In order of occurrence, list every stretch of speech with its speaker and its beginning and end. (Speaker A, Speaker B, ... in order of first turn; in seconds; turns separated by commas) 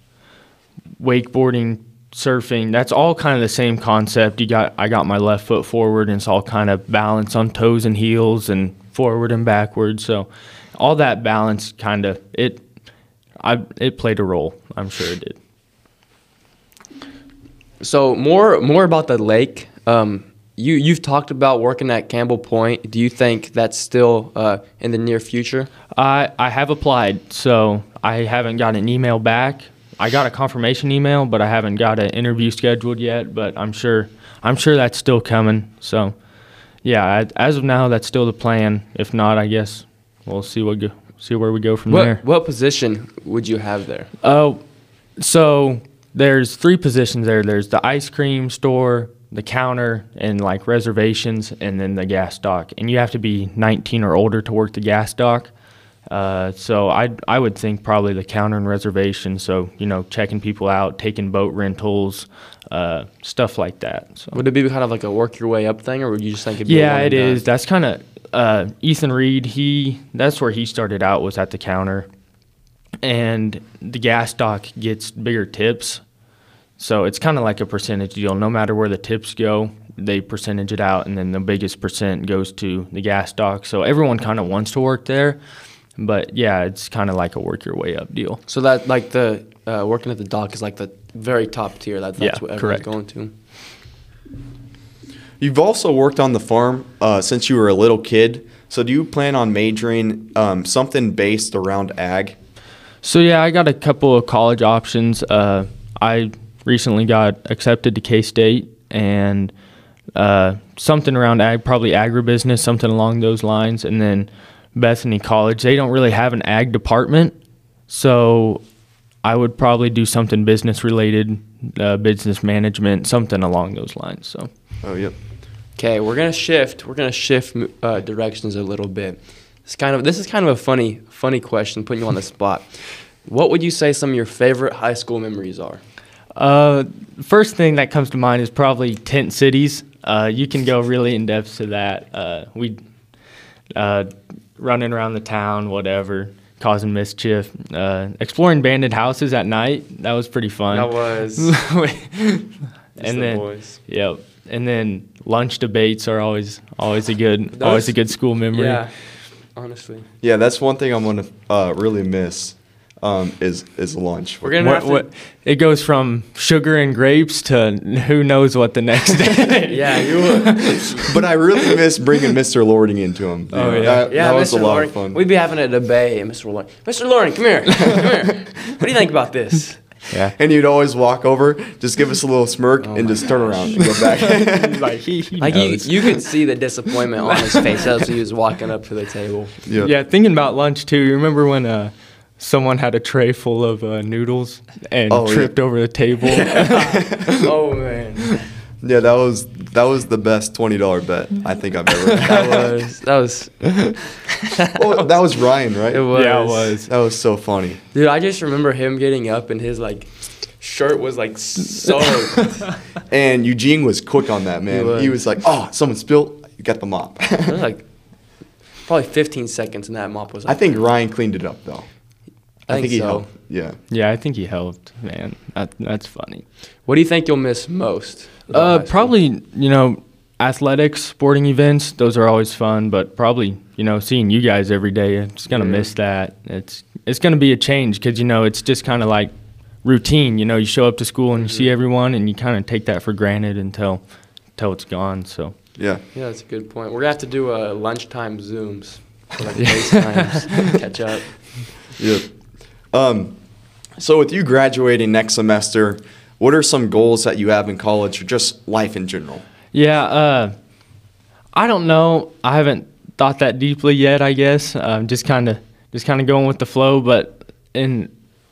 Speaker A: 1.0-12.7, Speaker A: 13.4-15.4, Speaker B: 17.8-25.7, Speaker A: 25.9-36.2, Speaker A: 36.8-42.2, Speaker B: 41.9-44.1, Speaker A: 44.2-55.5, Speaker A: 56.1-64.4, Speaker B: 64.3-67.4, Speaker A: 66.7-72.1, Speaker A: 73.0-76.0, Speaker A: 76.8-88.4, Speaker B: 88.5-93.3, Speaker A: 92.2-92.9, Speaker C: 95.4-102.4, Speaker A: 103.0-109.5, Speaker A: 110.2-118.7, Speaker A: 119.2-124.5, Speaker C: 124.8-125.2, Speaker B: 125.8-135.8, Speaker A: 136.3-142.8, Speaker A: 143.8-158.9, Speaker B: 150.7-151.6, Speaker B: 153.0-153.8, Speaker B: 157.5-160.1, Speaker C: 160.2-164.6, Speaker B: 164.4-165.1, Speaker A: 164.6-171.0, Speaker B: 169.7-171.1, Speaker C: 171.1-175.2, Speaker A: 173.5-174.1, Speaker B: 173.6-180.2, Speaker A: 180.1-180.3, Speaker C: 180.4-184.8, Speaker B: 182.8-184.3, Speaker A: 183.9-186.5, Speaker B: 185.4-189.6, Speaker A: 187.2-187.9, Speaker C: 189.7-189.9, Speaker A: 189.8-197.2, Speaker C: 195.1-195.6, Speaker B: 196.3-198.4, Speaker C: 196.8-197.3, Speaker C: 198.8-202.7, Speaker B: 202.2-204.0, Speaker C: 204.8-206.3, Speaker B: 205.9-206.8, Speaker A: 206.1-206.9, Speaker C: 206.9-207.8, Speaker B: 207.9-212.8, Speaker C: 213.1-217.6, Speaker B: 214.7-215.1, Speaker B: 217.5-220.9, Speaker C: 220.5-223.8, Speaker B: 222.7-223.3, Speaker A: 223.9-226.5, Speaker B: 226.8-229.2, Speaker A: 228.5-245.6, Speaker B: 235.5-235.9, Speaker B: 241.4-241.7, Speaker C: 245.8-246.0, Speaker B: 246.1-251.8, Speaker C: 251.9-253.4, Speaker C: 253.9-259.4, Speaker A: 259.7-260.6, Speaker A: 261.5-268.1